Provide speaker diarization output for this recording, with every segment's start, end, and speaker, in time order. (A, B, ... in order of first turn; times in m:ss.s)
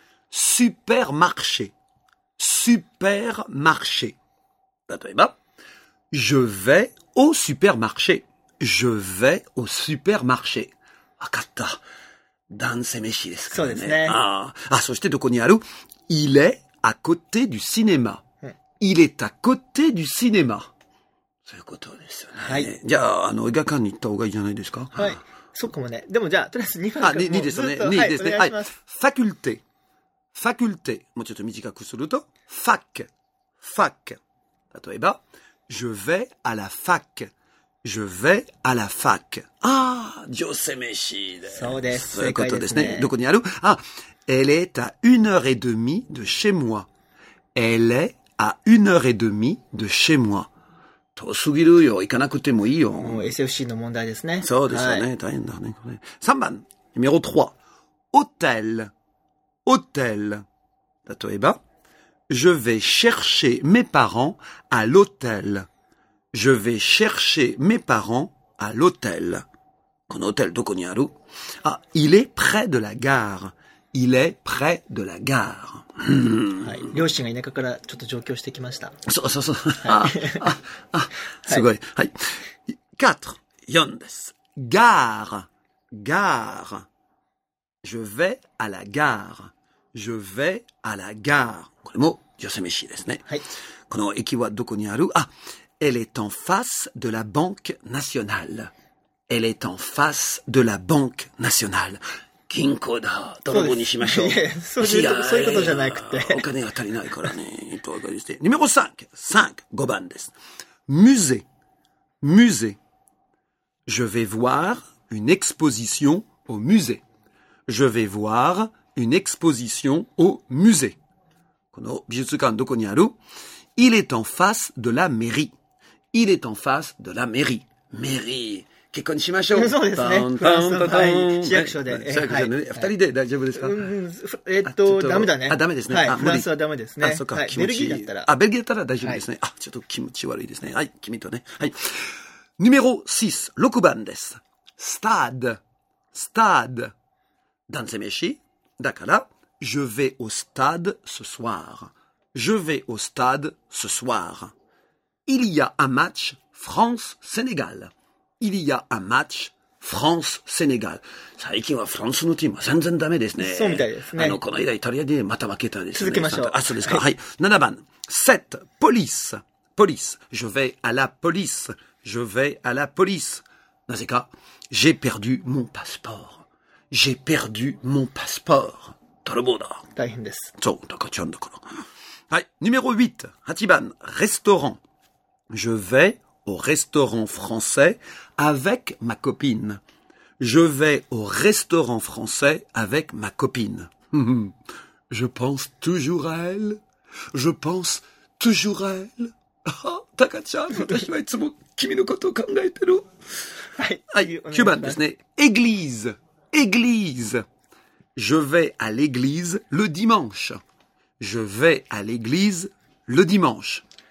0:00.3-0:01.7 A
0:02.4-0:04.2 A
0:04.9-0:05.4 A
0:06.1-0:11.8 A
0:12.5-0:18.2 A
0:13.5-0:14.2 B
0:18.8-0:20.7 A
0:21.5-0:25.1 A
0:22.4-0:22.7 B
0:25.0-0:28.8 B
0:27.0-0:29.6 A
0:30.3-0:33.1 A
0:33.6-0:34.2 A
0:34.7-0:37.3 A
0:37.8-0:46.9 A
0:41.5-0:43.1 B
0:47.6-0:50.5 A
0:51.2-0:53.3 A
0:53.0-0:55.1 B
0:54.4-0:57.6 A
0:58.1-0:58.9 A
0:59.7-1:00.4 A
1:01.1-1:01.6 A
1:02.3-1:05.7 A
1:06.3-1:09.4 A
1:10.1-1:16.7 A
1:16.6-1:18.9 B
1:19.1-1:22.1 A
1:19.8-1:20.4 B
1:22.7-1:26.9 A
1:27.8-1:33.2 A
1:33.9-1:35.3 A
1:35.8-1:38.7 A
1:39.3-1:50.3 A
1:43.5-1:46.5 B
1:50.9-1:51.4 A
1:52.2-1:52.8 A
1:53.9-1:57.0 A
1:57.7-2:01.0 A
2:01.7-2:03.2 A
2:03.8-2:05.5 A
2:06.1-2:13.8 A
2:09.5-2:12.9 B
2:13.6-2:18.3 B
2:14.6-2:16.5 A
2:17.0-2:21.8 A
2:22.6-2:25.6 A
2:26.1-2:26.9 A
2:27.7-2:34.5 A
2:35.3-2:59.9 A
2:43.4-2:44.4 B
2:46.0-2:47.0 B
3:00.0-3:00.5 B
3:00.6-3:01.6 A
3:02.3-3:04.8 A
3:05.5-3:09.8 A
3:10.4-3:14.5 A
3:15.1-3:16.8 A
3:17.3-3:23.1 A
3:23.8-3:25.0 B
3:24.1-3:27.4 A
3:28.2-3:30.6 A
3:31.2-3:33.8 A